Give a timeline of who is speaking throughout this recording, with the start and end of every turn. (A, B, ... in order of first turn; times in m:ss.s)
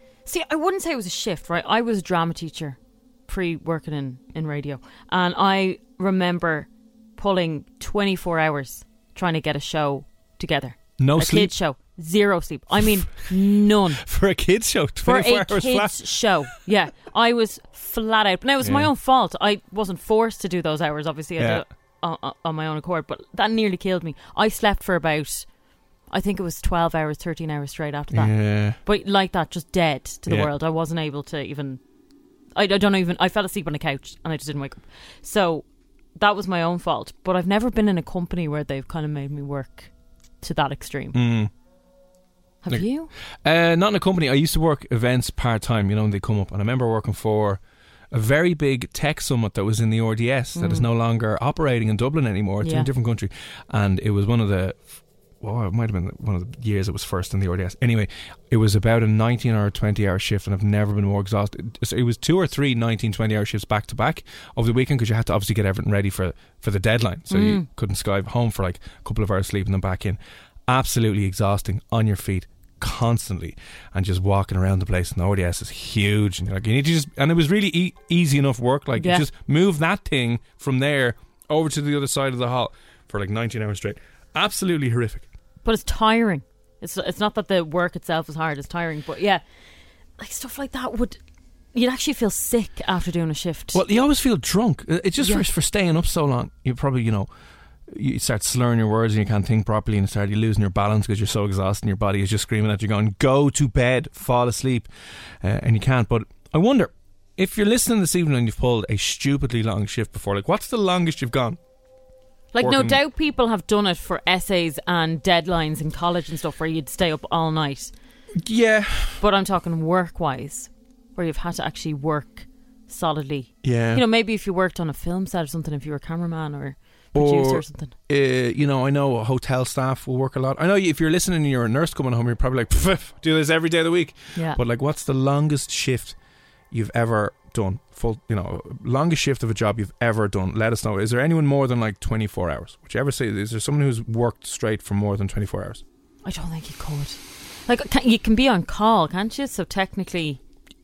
0:00.2-0:14.0 A
0:11.0-0:11.5 B
0:14.0-0:16.0 B
0:15.0-0:25.5 A
0:18.6-0:18.9 B
0:21.4-0:21.6 B
0:26.1-0:31.8 A
0:28.1-0:28.8 B
0:30.2-0:30.5 B
0:32.6-0:35.6 A
0:36.2-0:41.2 A
0:41.1-0:41.5 B
0:42.6-0:43.1 A
0:43.4-0:54.9 B
0:50.5-0:50.8 A
0:52.6-0:52.9 A
0:55.4-1:25.2 B
1:07.3-1:07.6 A
1:19.0-1:19.3 A
1:25.6-1:29.4 A
1:30.2-1:31.2 A
1:31.7-1:33.8 A
1:33.7-1:37.3 B
1:37.9-1:44.9 B
1:45.4-1:51.6 B
1:52.5-1:57.9 A
1:52.6-1:53.0 B
1:58.4-1:59.2 B
1:59.2-2:07.9 A
2:03.6-2:04.0 B
2:07.1-2:16.1 B
2:14.3-2:14.6 A
2:16.7-2:25.8 B
2:26.2-2:30.4 A